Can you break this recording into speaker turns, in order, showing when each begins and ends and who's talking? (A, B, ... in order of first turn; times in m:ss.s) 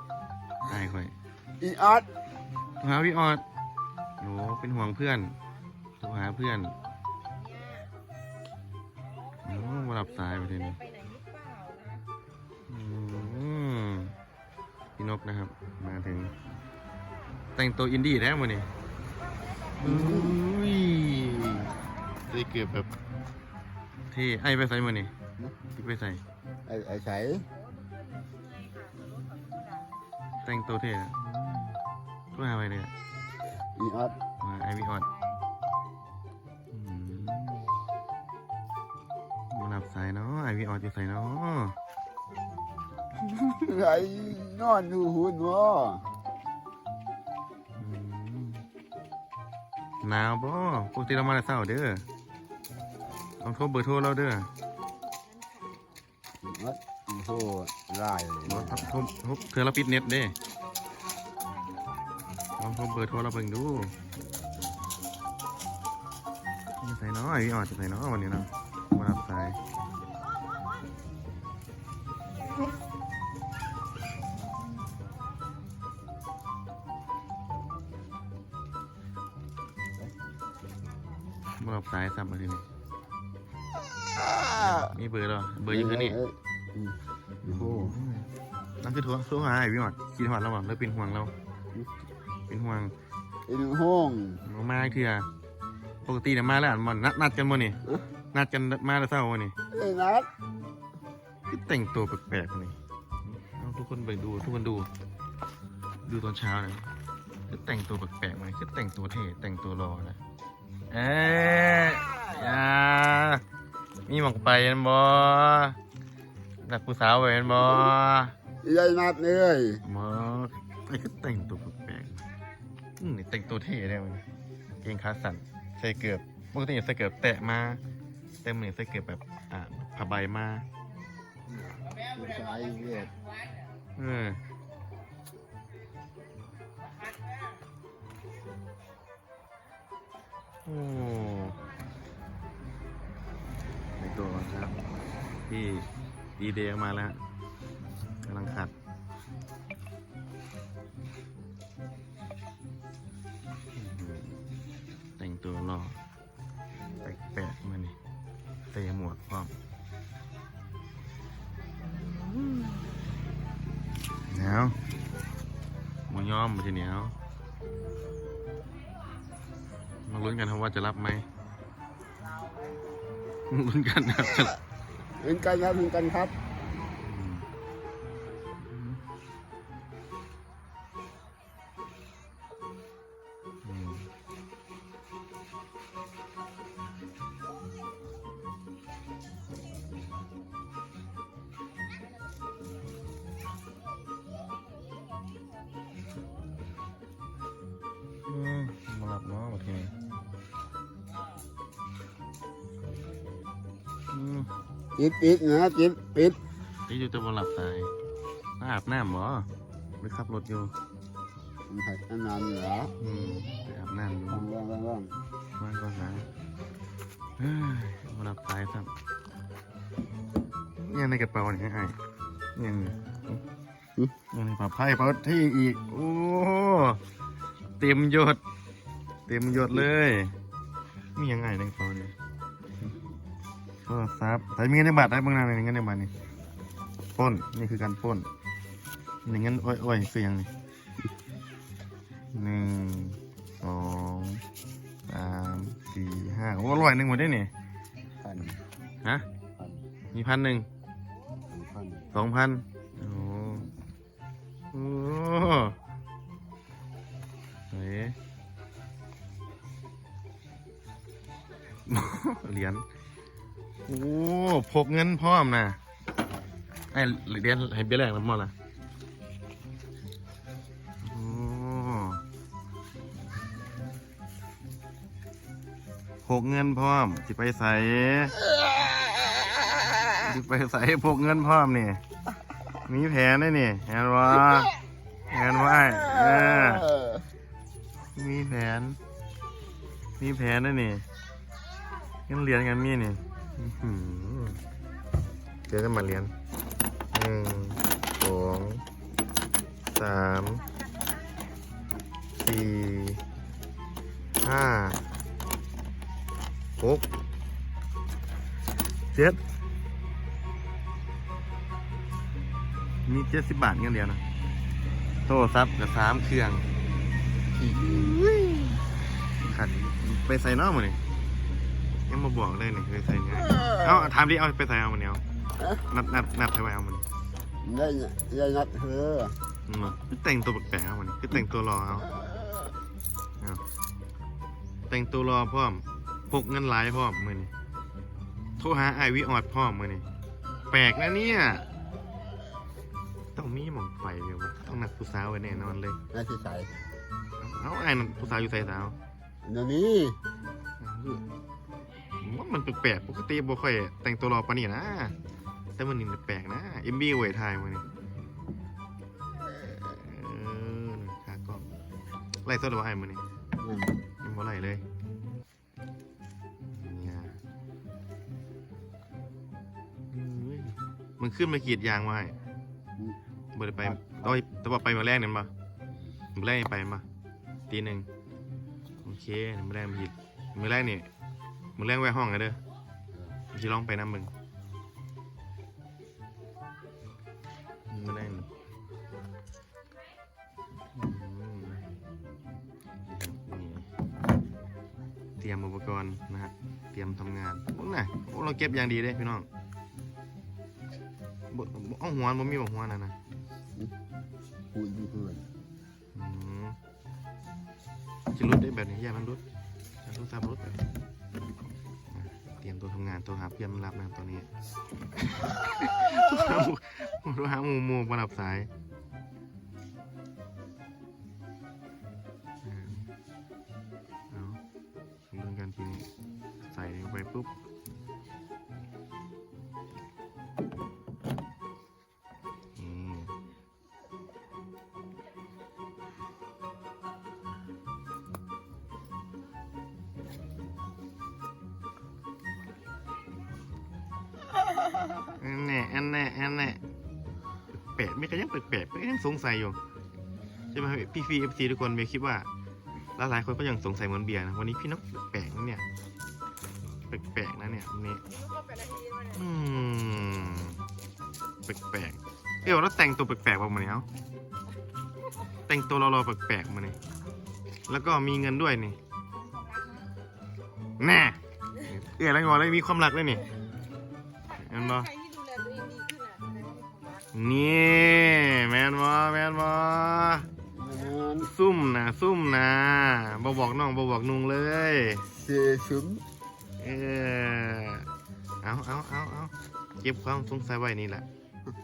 0:00.6-0:01.1 A
0:01.6-0:02.0 B
0:02.8-0:03.4 A
0:04.2-0:05.3 A
0:06.0-0:06.8 A
0:07.5-0:07.8 C
0:09.4-0:10.8 A
0:10.8-0:12.0 C
0:12.7-0:14.1 A
0:15.0-0:16.3 A
0:17.6-0:18.7 A
0:19.8-0:21.7 A
0:19.8-0:20.4 B
0:22.2-0:22.9 A
0:24.1-0:25.1 A
0:25.7-0:26.2 A
0:26.7-0:27.5 B
0:27.6-0:30.0 C
0:30.4-0:31.8 A
0:32.3-0:32.9 A
0:33.8-0:34.1 B
0:34.4-0:35.1 A
0:36.7-0:37.7 A
0:39.5-0:41.7 A
0:43.2-0:43.7 A
0:43.6-0:46.0 B
0:47.8-0:48.6 A
0:50.0-0:52.0 A
0:53.4-0:54.5 A
0:56.4-0:58.9 B
0:58.4-1:00.4 A
1:02.6-1:03.9 A
1:06.8-1:09.6 A
1:21.6-1:22.6 A
1:24.4-1:26.2 A
1:25.7-1:28.0 B
1:27.5-1:28.3 A
1:28.8-1:31.3 A
1:32.5-1:32.9 A
1:33.5-1:34.4 B
1:34.4-1:35.3 A
1:36.0-1:37.8 A
1:38.3-1:39.5 A
1:39.7-1:40.3 B
1:41.5-1:44.9 A
1:46.0-1:46.9 A
1:47.5-1:50.2 A
1:50.9-1:53.4 A
1:54.0-1:55.8 A
1:56.6-1:58.3 A
1:58.6-1:59.8 B
1:59.8-2:02.1 A
2:03.0-2:04.2 A
2:04.8-2:07.8 A
2:08.4-2:10.6 A
2:11.5-2:13.2 B
2:14.0-2:14.4 A
2:20.6-2:21.6 A
2:24.0-2:24.8 A
2:25.5-2:27.2 A
2:28.2-2:28.7 A
2:33.7-2:34.4 A
2:35.2-2:36.0 A
2:37.0-2:37.9 A
2:38.7-2:39.5 A
2:41.8-2:42.8 A
2:44.3-2:44.8 A
2:46.1-2:47.1 A
2:50.1-2:51.2 A
2:53.5-2:54.6 A
2:55.2-2:56.3 B
2:57.0-2:57.5 A
2:58.6-2:59.0 A
3:03.6-3:04.1 A
3:18.3-3:19.9 A
3:24.1-3:24.5 A
3:25.0-3:26.4 B
3:26.9-3:27.9 A
3:28.6-3:29.5 A
3:30.0-3:30.7 A
3:31.7-3:32.9 B
3:33.0-3:34.5 A
3:34.3-3:35.1 B
3:35.6-3:36.2 A
3:37.4-3:38.9 A
3:40.8-3:42.0 A
3:42.6-3:43.4 A
3:44.3-3:47.0 A
3:47.8-3:48.4 A
3:49.3-3:50.3 A
3:51.2-3:52.1 A
3:53.8-3:56.1 A
3:57.2-3:58.3 A
3:59.2-4:00.5 A
4:02.3-4:04.4 A
4:05.1-4:07.5 A
4:08.2-4:08.6 B
4:10.1-4:10.7 A
4:11.5-4:12.0 B
4:12.1-4:13.7 A
4:14.7-4:15.8 A
4:17.7-4:18.2 A
4:21.8-4:22.8 A
4:23.9-4:25.8 A
4:26.9-4:28.5 A
4:31.0-4:32.2 A
4:36.2-4:38.4 A
4:40.1-4:42.0 A
4:42.8-4:44.7 A
4:45.3-4:46.9 A
4:46.1-4:47.2 B
4:48.2-4:49.0 A
4:50.2-4:51.0 A
4:52.3-4:54.6 A
4:55.7-4:56.3 A
4:57.1-4:58.8 A
4:59.9-5:00.6 A
5:02.4-5:03.2 A
5:04.4-5:05.0 A
5:06.8-5:07.0 A
5:09.1-5:09.4 A
5:13.0-5:14.2 A
5:15.3-5:16.6 A
5:17.6-5:18.2 B
5:17.8-5:18.6 A
5:19.4-5:21.0 A
5:22.1-5:25.2 A
5:25.8-5:27.0 A
5:27.6-5:29.3 B
5:29.7-5:32.1 A
5:34.9-5:37.5 A
5:38.6-5:40.0 A
5:40.7-5:41.7 A
5:43.3-5:46.0 A
5:46.1-5:46.7 B
5:47.4-5:49.0 A
5:49.4-5:50.2 B
5:50.8-5:51.3 A
5:52.2-5:55.1 A
5:55.8-5:57.8 A
5:59.6-6:01.7 A
6:02.4-6:03.2 A
6:03.6-6:03.9 B
6:04.2-6:04.8 A
6:06.7-6:07.4 A
6:10.1-6:12.3 A
6:13.5-6:15.5 A
6:13.8-6:14.1 B
6:16.3-6:17.0 A
6:17.7-6:18.1 A
6:19.0-6:21.1 A
6:21.8-6:22.6 A
6:23.5-6:24.3 A
6:27.9-6:28.5 A
6:30.9-6:31.8 A
6:33.0-6:33.9 A
6:35.4-6:39.5 A
6:41.5-6:43.1 A
6:44.7-6:45.4 B
6:46.1-6:46.8 A
6:48.3-6:49.4 A
6:50.0-6:50.8 A
6:52.1-6:54.5 A
6:55.2-6:58.7 A
7:02.6-7:03.0 A
7:04.3-7:04.6 A
7:05.3-7:06.0 A
7:06.6-7:07.5 A
7:12.8-7:13.3 A
7:25.3-7:26.8 A
7:27.7-7:29.8 A
7:30.7-7:32.5 A
7:33.2-7:35.8 A
7:37.1-7:38.2 A
7:38.4-7:39.2 C
7:39.2-7:40.8 A
7:41.6-7:44.1 A
7:45.7-7:47.0 A
7:47.9-7:49.0 A
7:49.6-7:50.0 C
7:51.0-7:53.5 A
7:54.5-7:55.1 A
7:55.1-7:57.2 C
7:57.3-8:00.5 A
8:00.7-8:01.5 B
8:01.4-8:05.3 A
8:05.3-8:06.2 B
8:06.8-8:08.1 A
8:08.6-8:11.2 A